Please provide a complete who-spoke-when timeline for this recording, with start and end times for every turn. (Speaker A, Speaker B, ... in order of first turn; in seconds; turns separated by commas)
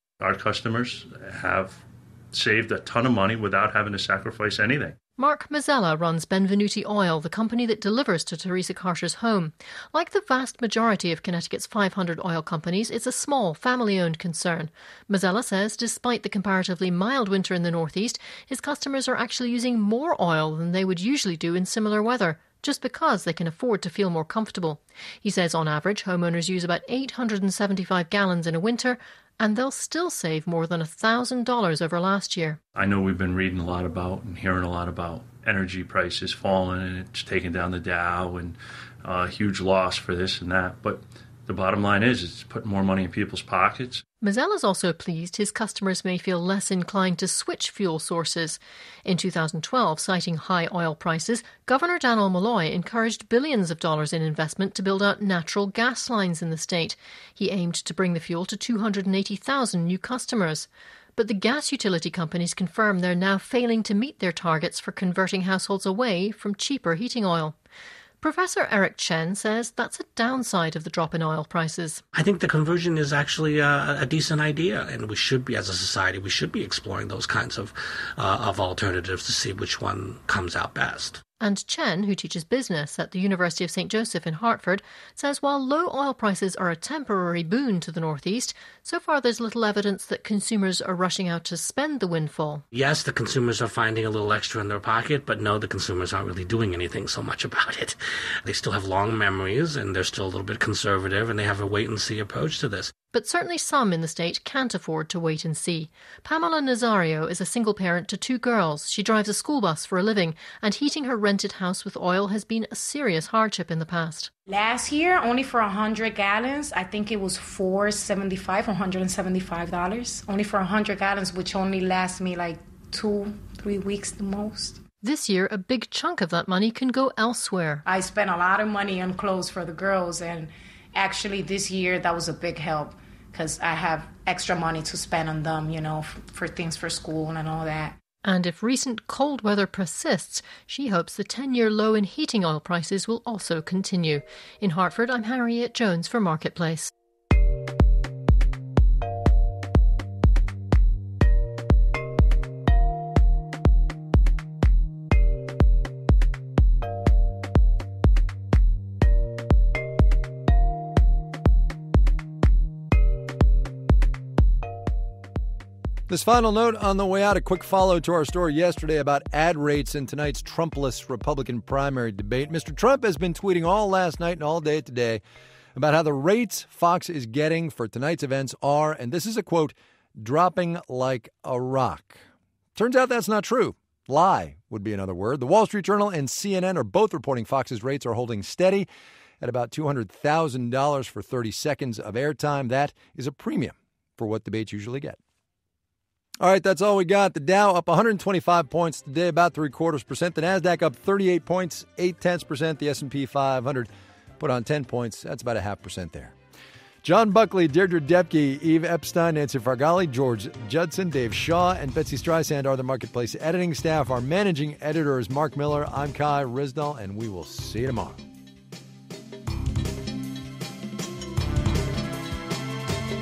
Speaker A: 0.2-5.0, Speaker B: 5.2-32.6, Speaker A: 32.7-44.0, Speaker B: 44.2-67.5, Speaker B: 68.2-72.0, Speaker C: 72.1-81.2, Speaker B: 81.4-92.6, Speaker C: 92.7-102.9, Speaker B: 103.0-114.3, Speaker D: 114.5-124.8, Speaker B: 125.0-127.8, Speaker D: 127.8-138.0, Speaker B: 138.2-146.9, Speaker E: 166.1-175.2, Speaker E: 175.7-182.2, Speaker E: 182.8-188.9, Speaker E: 189.4-195.2, Speaker E: 196.4-206.3, Speaker E: 207.0-218.2